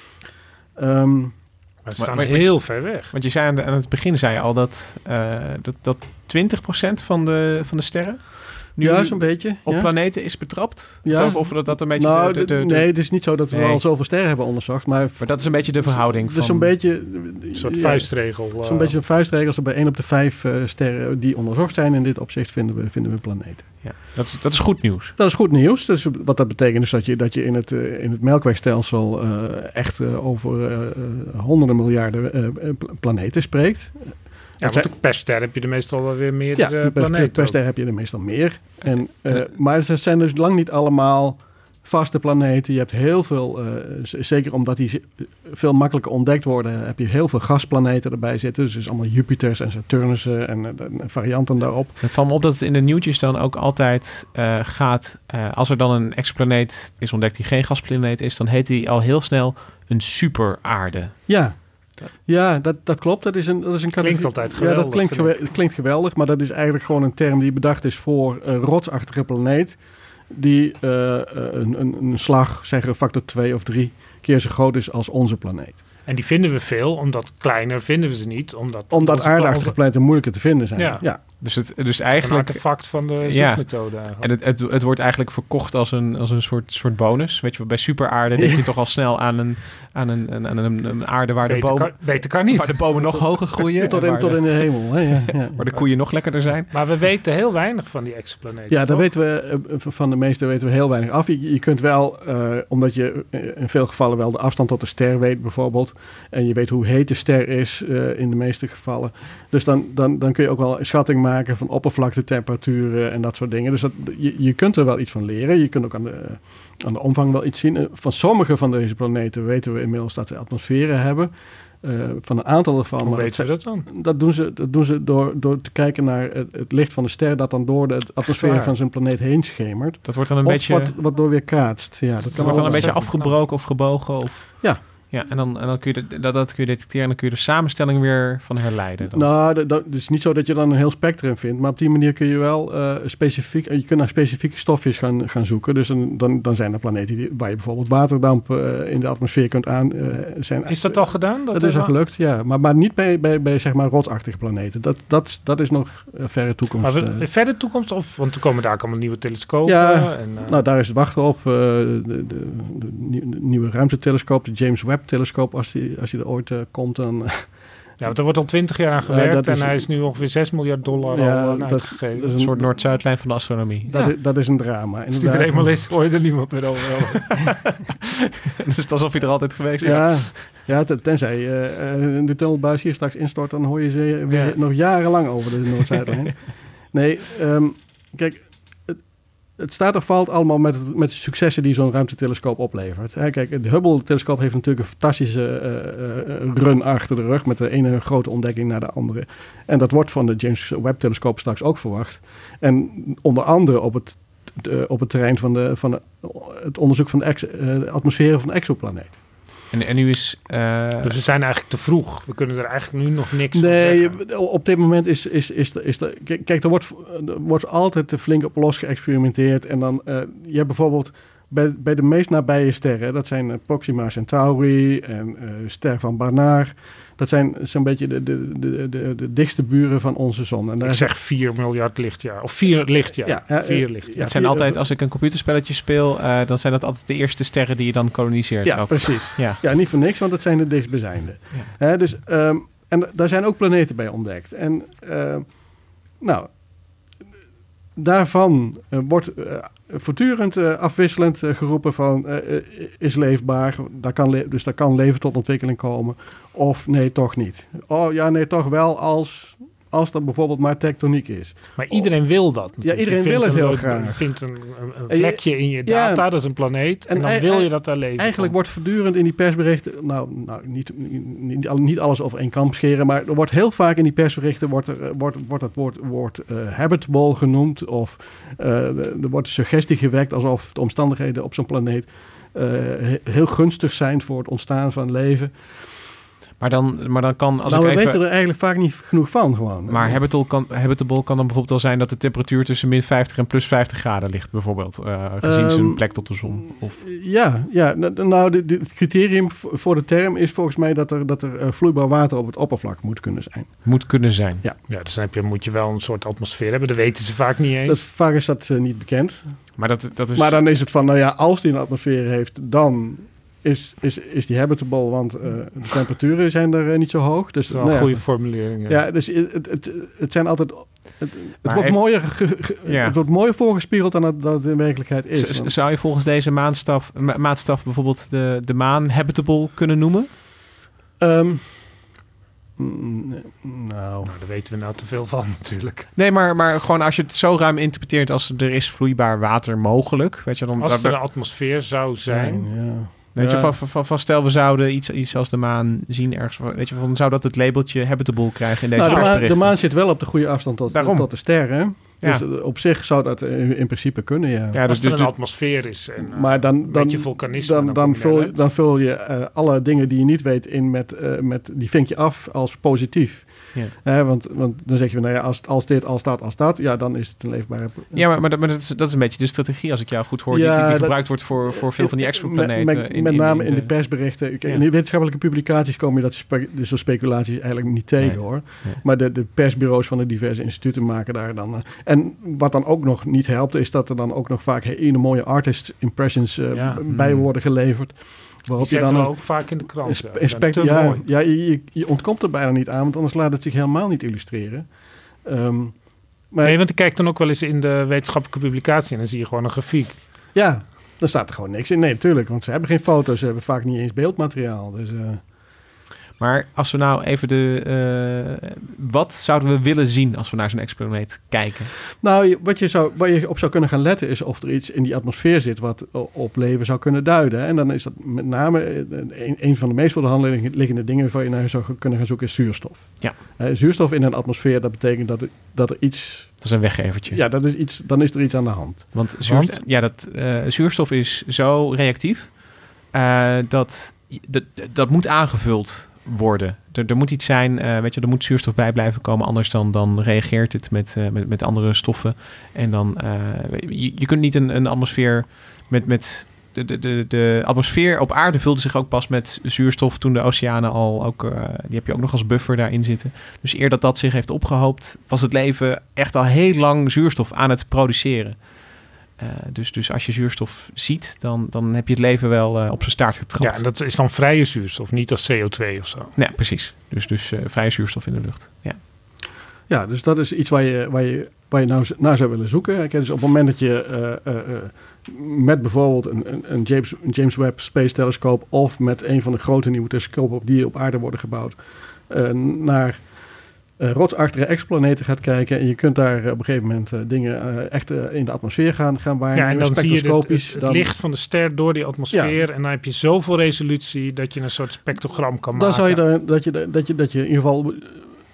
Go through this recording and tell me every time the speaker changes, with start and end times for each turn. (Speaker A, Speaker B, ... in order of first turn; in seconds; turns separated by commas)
Speaker A: 0.8-1.4, Speaker B: 1.8-3.1, Speaker C: 1.9-12.9, Speaker A: 8.8-9.9, Speaker A: 11.0-23.7, Speaker C: 13.5-13.8, Speaker C: 15.2-16.7, Speaker B: 17.5-18.9, Speaker C: 23.8-25.1, Speaker A: 25.2-34.9, Speaker B: 34.6-37.6, Speaker A: 36.5-52.0, Speaker B: 38.8-39.4, Speaker C: 52.0-61.3, Speaker A: 61.3-75.8, Speaker B: 64.0-65.4, Speaker B: 76.0-80.0, Speaker A: 78.9-81.2, Speaker B: 80.8-81.0, Speaker C: 81.4-95.0, Speaker B: 82.2-84.3, Speaker A: 88.3-88.7, Speaker B: 91.4-93.1, Speaker A: 93.1-95.6, Speaker C: 95.5-96.7, Speaker B: 96.7-99.0, Speaker A: 98.7-133.1, Speaker B: 123.0-123.8, Speaker B: 128.3-128.7, Speaker C: 130.0-130.9, Speaker B: 132.3-133.4, Speaker C: 132.3-139.3, Speaker A: 139.0-157.2, Speaker B: 150.7-151.9, Speaker B: 156.8-160.6, Speaker A: 159.6-167.6, Speaker B: 168.0-172.4, Speaker A: 169.0-169.9, Speaker A: 171.1-172.8, Speaker C: 172.4-173.9, Speaker A: 173.9-175.8, Speaker B: 175.1-177.4, Speaker C: 178.6-180.4, Speaker A: 179.8-189.0, Speaker B: 184.3-184.6, Speaker A: 189.6-209.2, Speaker C: 209.7-211.1, Speaker B: 211.0-214.2, Speaker A: 213.5-231.1, Speaker B: 230.8-234.3, Speaker A: 233.2-234.8, Speaker C: 234.2-239.6, Speaker A: 238.6-247.0, Speaker A: 247.9-264.4, Speaker B: 261.8-268.5, Speaker A: 265.1-285.8, Speaker C: 286.6-288.2, Speaker A: 287.6-290.2, Speaker C: 289.9-297.0, Speaker A: 295.4-304.8, Speaker C: 303.8-304.6, Speaker B: 304.9-308.1, Speaker A: 307.8-325.7, Speaker C: 309.8-310.7, Speaker B: 317.7-319.0, Speaker C: 321.6-323.2, Speaker C: 325.4-330.3, Speaker A: 331.2-332.1, Speaker A: 332.8-334.3, Speaker B: 334.2-336.1, Speaker C: 336.1-341.2, Speaker B: 340.8-342.7, Speaker A: 342.2-343.7, Speaker C: 343.3-350.1, Speaker A: 348.9-354.8, Speaker B: 349.0-349.4, Speaker C: 350.9-352.4, Speaker C: 354.7-355.3, Speaker B: 354.9-358.6, Speaker A: 356.2-368.3, Speaker C: 368.1-374.8, Speaker A: 370.5-394.9, Speaker C: 378.2-379.0, Speaker B: 386.7-387.0, Speaker C: 387.1-387.5, Speaker B: 388.8-391.2, Speaker A: 395.4-396.8, Speaker B: 396.6-400.2, Speaker A: 400.5-405.4, Speaker C: 406.4-411.9, Speaker A: 412.2-429.2, Speaker C: 426.6-427.4, Speaker C: 429.1-463.8, Speaker B: 429.4-429.8, Speaker B: 463.6-466.3, Speaker C: 466.4-469.0, Speaker A: 469.9-483.4, Speaker A: 484.0-491.1, Speaker B: 489.5-496.2, Speaker A: 492.3-492.6, Speaker A: 495.7-498.2